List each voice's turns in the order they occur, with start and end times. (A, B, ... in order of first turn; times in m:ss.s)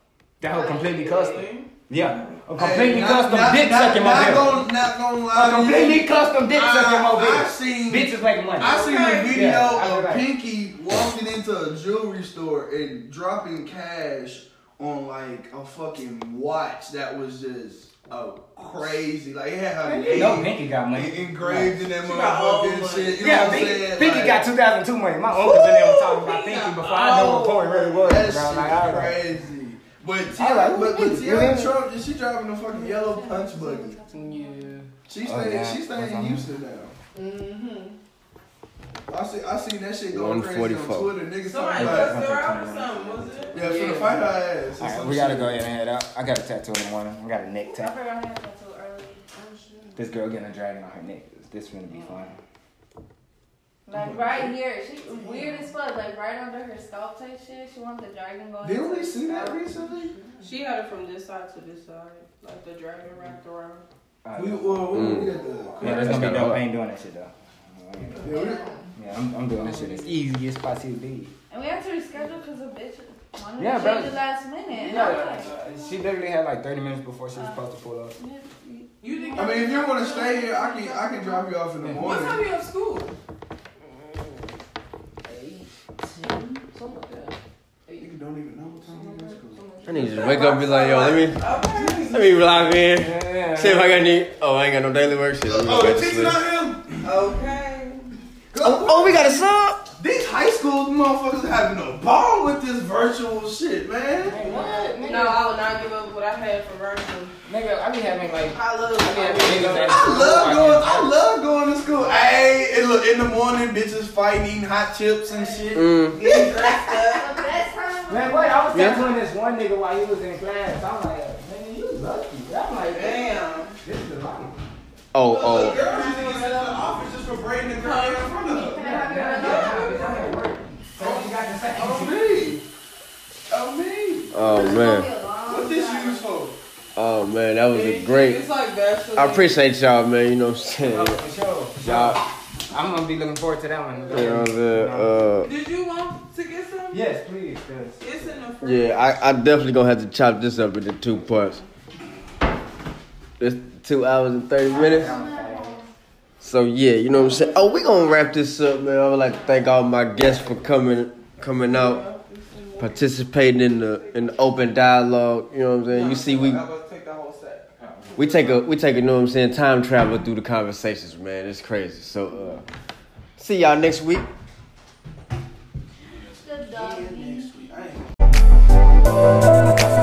0:00.4-0:04.6 A
0:00.6-0:01.7 B
0:00.8-0:01.2 C
0:02.5-0:24.4 D
0:05.3-0:10.2 A
0:08.6-0:09.6 B
0:19.9-0:20.4 B
0:20.1-0:21.8 A
0:22.0-0:23.2 B
0:23.2-0:29.2 A
0:25.4-0:26.2 D
0:26.2-0:28.2 B
0:26.9-0:27.5 D
0:28.0-0:34.0 D
0:30.4-0:31.7 A
0:32.6-0:34.8 E
0:34.1-0:34.9 F
0:35.1-0:36.9 D
0:35.2-0:36.5 A
0:37.1-0:38.0 B
0:39.1-0:42.2 D
0:40.1-0:41.1 G
0:41.4-0:44.0 B
0:41.8-0:43.8 A
0:43.5-0:45.6 D
0:43.6-0:44.4 F
0:44.8-0:47.9 A
0:47.6-0:49.3 E
0:50.0-0:52.3 A
0:53.8-1:00.0 E
0:53.9-0:54.6 D
0:55.1-0:55.6 D
0:58.6-1:00.1 D
1:00.4-1:03.8 C
1:04.2-1:05.1 A
1:04.3-1:06.4 D
1:04.9-1:06.6 G
1:05.8-1:08.3 A
1:08.0-1:08.6 D
1:08.2-1:08.7 E
1:09.0-1:11.3 A
1:09.5-1:10.2 F
1:11.5-1:16.0 E
1:13.6-1:14.2 A
1:14.8-1:18.1 A
1:17.3-1:17.6 E
1:18.2-1:21.5 E
1:19.0-1:20.3 B
1:19.3-1:22.4 D
1:19.5-1:20.1 C
1:21.9-1:23.2 B
1:25.3-1:27.3 F
1:28.0-1:29.7 D
1:28.8-1:30.0 E
1:29.8-1:31.4 G
1:30.0-1:32.5 B
1:31.6-1:32.7 D
1:32.0-1:36.4 G
1:32.9-1:34.0 A
1:35.4-1:37.0 D
1:37.0-1:38.0 B
1:38.5-1:44.7 D
1:38.6-1:39.8 G
1:44.2-1:45.4 A
1:44.4-1:45.0 B
1:44.9-1:47.3 C
1:47.5-1:51.1 A
1:48.4-1:50.0 C
1:49.2-1:50.3 B
1:49.7-1:56.9 D
1:55.7-1:56.2 G
1:56.2-1:57.4 B
1:57.1-1:59.0 E
1:58.1-2:04.5 A
1:58.7-1:59.0 G
2:02.8-2:03.7 B
2:05.1-2:05.8 G
2:05.2-2:09.0 D
2:05.8-2:06.6 A
2:07.8-2:08.4 B
2:08.4-2:10.3 E
2:08.7-2:12.4 A
2:09.0-2:10.4 B
2:11.0-2:12.6 D
2:13.5-2:14.7 D
2:14.3-2:15.1 G
2:14.4-2:16.2 E
2:15.4-2:16.5 D
2:16.9-2:18.4 G
2:17.7-2:19.6 B
2:19.2-2:21.2 G
2:20.8-2:22.2 A
2:21.8-2:22.2 G
2:22.7-2:25.2 A
2:24.1-2:25.5 G
2:25.4-2:27.1 B
2:26.9-2:28.0 A
2:28.0-2:29.1 B
2:28.6-2:31.6 G
2:33.4-2:35.2 G
2:34.7-2:35.9 E
2:34.7-2:35.8 A
2:36.4-2:42.0 G
2:39.3-2:39.6 E
2:41.6-2:43.1 B
2:42.8-2:46.6 G
2:44.2-2:44.5 B
2:45.9-2:47.7 B
2:47.8-2:48.7 A
2:48.2-2:52.6 G
2:53.4-2:54.3 G
2:56.0-2:58.1 D
2:56.4-2:57.8 E